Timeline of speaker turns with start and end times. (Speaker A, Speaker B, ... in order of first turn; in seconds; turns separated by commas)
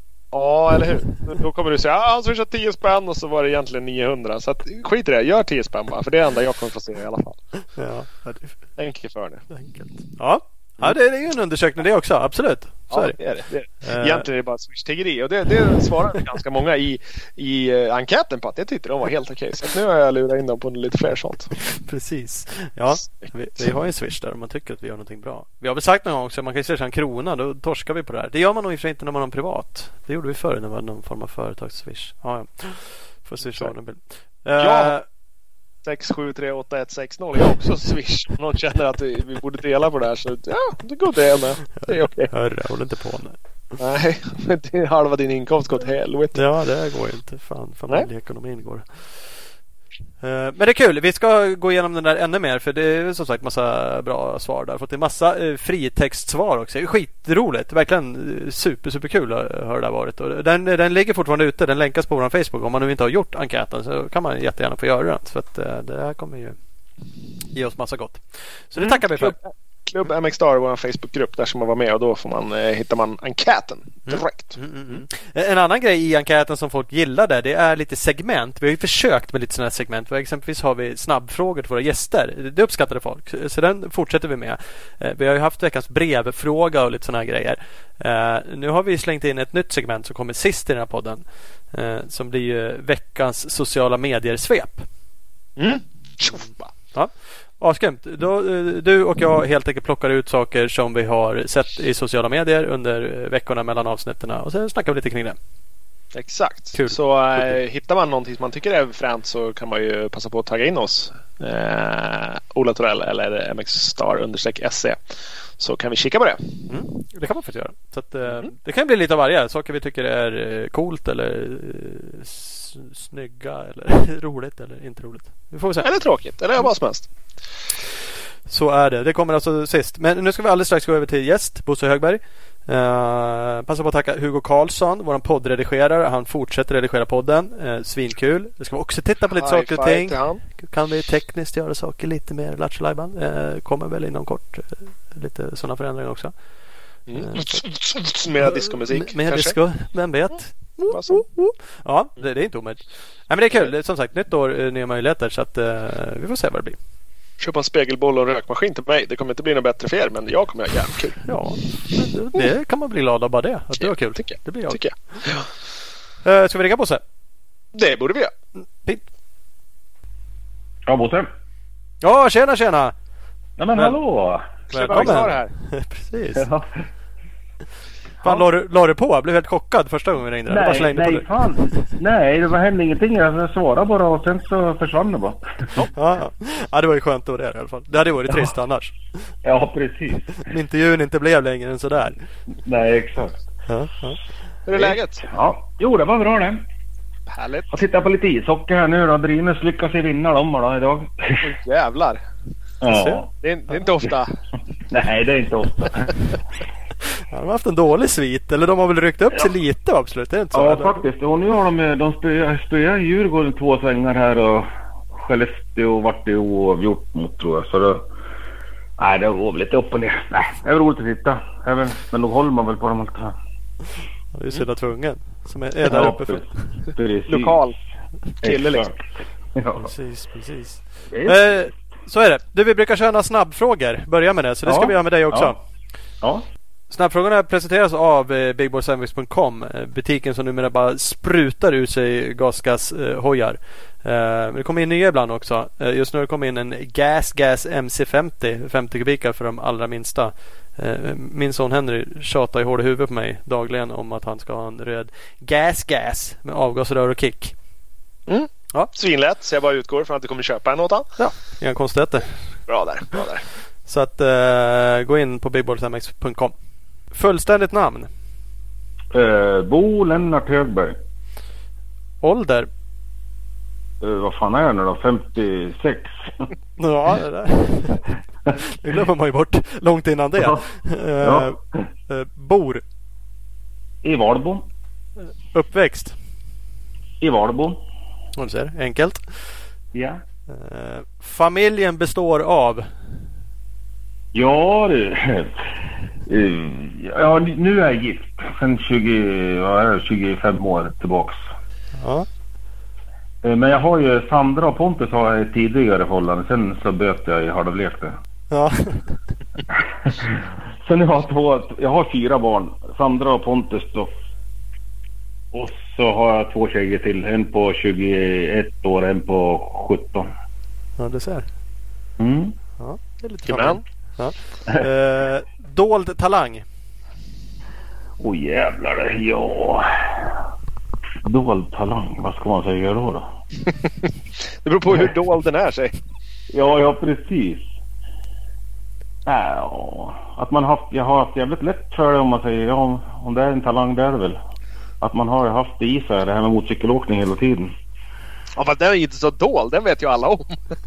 Speaker A: 0.3-7.4, Speaker B: 7.8-8.6, Speaker A: 8.8-9.4, Speaker B: 9.5-13.2, Speaker A: 12.9-21.6, Speaker B: 13.8-14.2, Speaker B: 21.6-35.0, Speaker A: 34.6-34.9, Speaker A: 35.8-42.3, Speaker B: 41.8-43.4, Speaker A: 43.8-46.5, Speaker B: 46.3-49.5, Speaker B: 50.2-66.6, Speaker B: 67.5-69.3, Speaker A: 68.8-75.0, Speaker B: 74.1-94.8, Speaker A: 95.6-96.7, Speaker B: 96.9-105.4, Speaker A: 106.1-115.0, Speaker B: 106.7-107.6, Speaker A: 115.6-116.7, Speaker B: 116.7-125.9, Speaker A: 125.8-127.1, Speaker B: 128.5-146.3, Speaker A: 139.3-140.4, Speaker A: 147.1-149.6, Speaker B: 147.1-147.6, Speaker B: 148.4-156.8, Speaker A: 150.9-151.2, Speaker A: 157.4-161.4, Speaker B: 161.2-165.3, Speaker A: 163.8-165.5, Speaker B: 166.2-167.0, Speaker A: 167.7-168.3, Speaker C: 170.9-171.3, Speaker B: 172.0-172.9, Speaker C: 173.6-175.2, Speaker A: 174.7-175.5, Speaker B: 174.7-176.4, Speaker C: 176.3-176.7, Speaker B: 178.2-181.9, Speaker C: 180.5-185.7, Speaker B: 185.9-189.0, Speaker C: 189.4-190.3, Speaker B: 190.3-192.2, Speaker C: 192.6-193.4, Speaker B: 193.7-194.2, Speaker A: 194.7-195.3, Speaker C: 194.7-196.6, Speaker A: 197.3-197.8, Speaker C: 197.7-201.5, Speaker A: 201.4-202.2, Speaker C: 202.8-203.3, Speaker B: 202.9-203.2, Speaker A: 203.4-204.3, Speaker C: 204.9-206.1, Speaker B: 207.2-211.0, Speaker C: 210.5-218.0, Speaker C: 219.0-223.3, Speaker B: 224.3-226.5, Speaker C: 225.8-227.6, Speaker A: 227.3-227.8, Speaker A: 228.4-228.8, Speaker C: 228.4-229.9, Speaker B: 229.8-235.6, Speaker C: 231.1-231.6, Speaker C: 234.6-235.5, Speaker B: 236.9-257.5, Speaker A: 258.3-261.1, Speaker B: 261.2-262.4, Speaker A: 262.7-263.4, Speaker B: 263.9-266.5, Speaker B: 267.1-268.1, Speaker C: 269.1-271.0, Speaker B: 272.2-272.7, Speaker C: 274.0-276.5, Speaker B: 276.8-282.8, Speaker C: 280.4-280.6, Speaker C: 281.2-281.8, Speaker C: 284.0-284.6, Speaker B: 285.2-286.2, Speaker C: 287.2-287.8, Speaker B: 288.4-289.3, Speaker C: 289.9-290.2, Speaker B: 290.5-292.9, Speaker C: 294.3-295.6, Speaker C: 296.2-301.4, Speaker B: 302.0-302.3, Speaker C: 303.4-308.1, Speaker B: 308.5-309.2, Speaker C: 309.7-314.1, Speaker C: 315.5-320.3, Speaker B: 321.0-321.4, Speaker C: 322.2-322.5, Speaker B: 322.8-326.6, Speaker A: 323.5-323.8, Speaker C: 328.2-330.4, Speaker C: 331.2-333.3, Speaker A: 334.6-335.9, Speaker C: 336.5-337.7, Speaker C: 339.2-344.4, Speaker C: 345.0-347.7, Speaker A: 348.5-350.6